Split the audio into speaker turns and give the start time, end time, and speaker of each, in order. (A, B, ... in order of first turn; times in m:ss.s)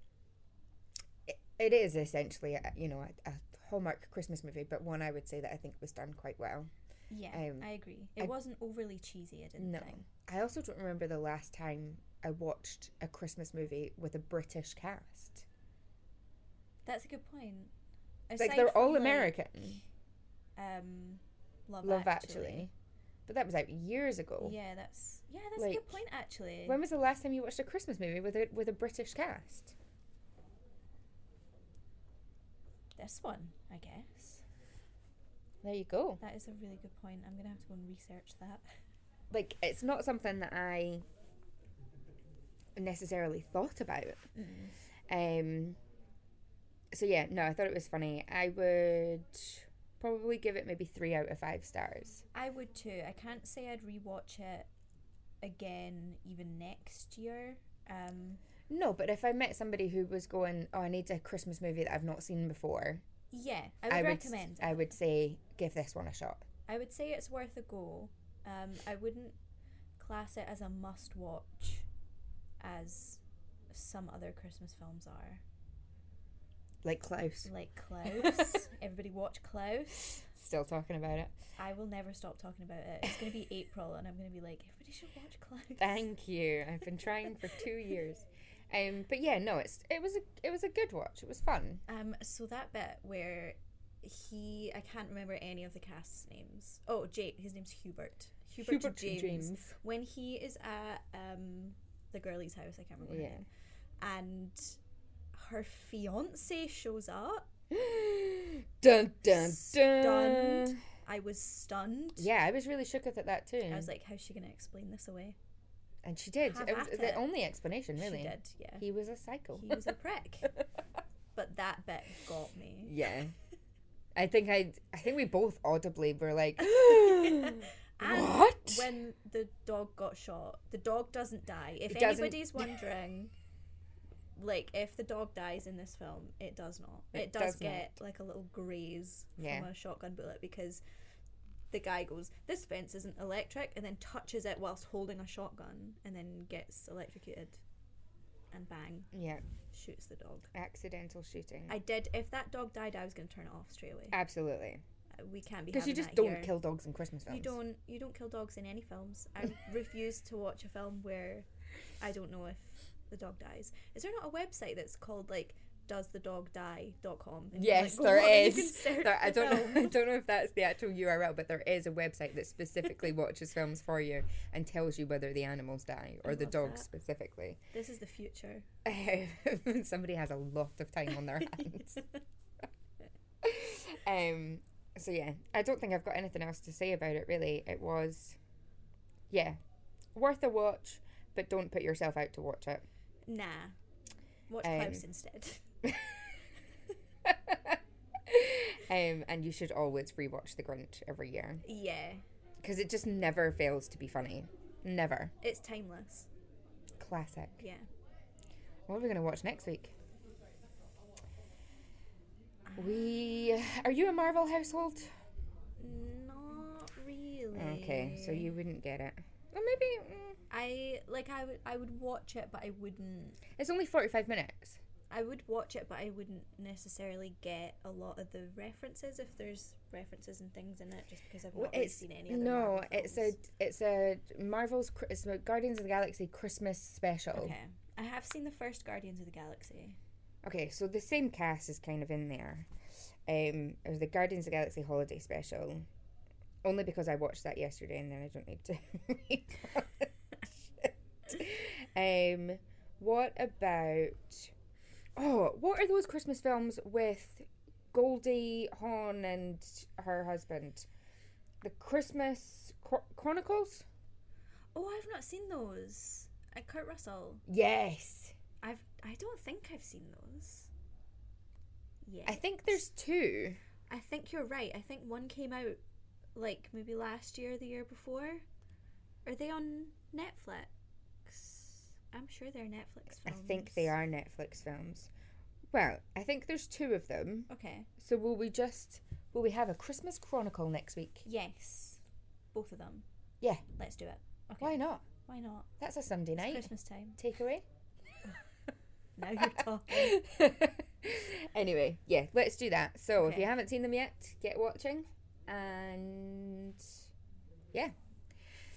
0:01.3-0:06.7 A
0:07.1-0:10.0 B
0:07.3-0:07.7 A
0:09.6-0:15.4 A
0:16.8-0:17.7 B
0:18.3-0:19.4 B
0:18.4-0:19.8 A
0:20.6-0:22.7 B
0:21.8-0:22.7 A
0:23.3-0:24.6 A
0:24.4-0:26.8 B
0:25.6-0:26.0 A
0:26.6-0:29.7 A
0:33.0-0:34.4 B
0:35.6-0:36.2 A
0:36.2-0:38.6 B
0:39.3-0:41.0 A
0:42.8-0:44.3 A
0:44.3-0:44.7 B
0:45.1-0:45.8 A
0:46.9-0:52.2 A
0:52.3-0:54.7 B
0:55.4-0:58.4 B
0:58.7-1:03.0 A
1:03.3-1:04.9 B
1:03.9-1:06.4 A
1:06.7-1:09.4 B
1:10.0-1:11.9 B
1:12.6-1:15.4 B
1:16.8-1:17.5 A
1:17.4-1:20.2 B
1:20.1-1:21.3 A
1:21.6-1:26.0 B
1:25.8-1:31.8 A
1:31.9-1:43.4 B
1:38.6-1:39.8 A
1:43.0-1:43.4 A
1:44.0-1:44.8 B
1:45.3-1:47.5 B
1:47.7-1:50.8 A
1:49.2-1:52.3 B
1:52.2-1:53.9 A
1:53.7-1:55.4 B
1:56.0-1:59.9 A
1:56.4-1:57.2 B
1:58.0-1:58.8 B
1:59.5-2:00.5 B
2:01.3-2:03.0 B
2:02.8-2:03.3 A
2:04.2-2:08.9 A
2:06.6-2:13.3 B
2:11.9-2:12.7 A
2:14.4-2:20.8 B
2:17.1-2:17.9 A
2:19.4-2:19.7 A
2:21.7-2:27.6 B
2:28.5-2:29.1 B
2:29.1-2:29.4 A
2:29.7-2:30.5 B
2:30.5-2:31.8 A
2:31.7-2:34.2 B
2:34.1-2:34.8 A
2:35.2-2:36.5 B
2:35.7-2:37.6 A
2:37.3-2:41.4 B
2:42.0-2:50.0 B
2:47.5-2:57.6 A
2:56.2-2:56.8 B
2:57.7-2:58.6 B
2:58.8-3:02.1 A
3:03.4-3:08.4 A
3:09.3-3:09.6 A
3:10.1-3:12.8 A
3:13.3-3:13.8 B
3:14.5-3:15.6 B
3:14.6-3:15.0 A
3:17.2-3:21.6 A
3:21.6-3:22.2 B
3:22.6-3:25.3 A
3:25.4-3:26.3 B
3:27.0-3:27.6 A
3:27.6-3:27.8 B
3:28.9-3:29.9 A
3:32.7-3:35.1 A
3:35.8-3:38.6 B
3:37.5-3:40.4 A
3:40.5-3:43.4 B
3:43.6-3:44.8 A
3:45.1-3:53.4 B
3:51.5-3:57.5 A
3:57.3-4:00.0 B
4:00.4-4:02.7 A
4:03.3-4:05.8 A
4:06.6-4:10.1 A
4:10.8-4:14.5 A
4:15.2-4:20.9 A
4:21.6-4:23.8 A
4:24.7-4:27.4 B
4:27.5-4:28.3 A
4:28.6-4:30.7 B
4:32.0-4:32.6 B
4:32.2-4:33.6 A
4:33.9-4:35.8 B
4:36.3-4:38.4 B
4:39.2-4:40.7 B
4:41.2-4:43.9 B
4:43.2-4:45.1 A
4:45.7-4:51.2 A
4:47.5-4:47.9 B
4:51.2-4:52.0 B
4:52.5-4:53.0 B
4:53.8-4:55.7 B
4:54.6-4:55.0 A
4:55.8-4:57.6 A
4:56.4-4:57.2 B
4:59.2-5:00.2 B
4:59.9-5:06.9 A
5:03.2-5:03.5 B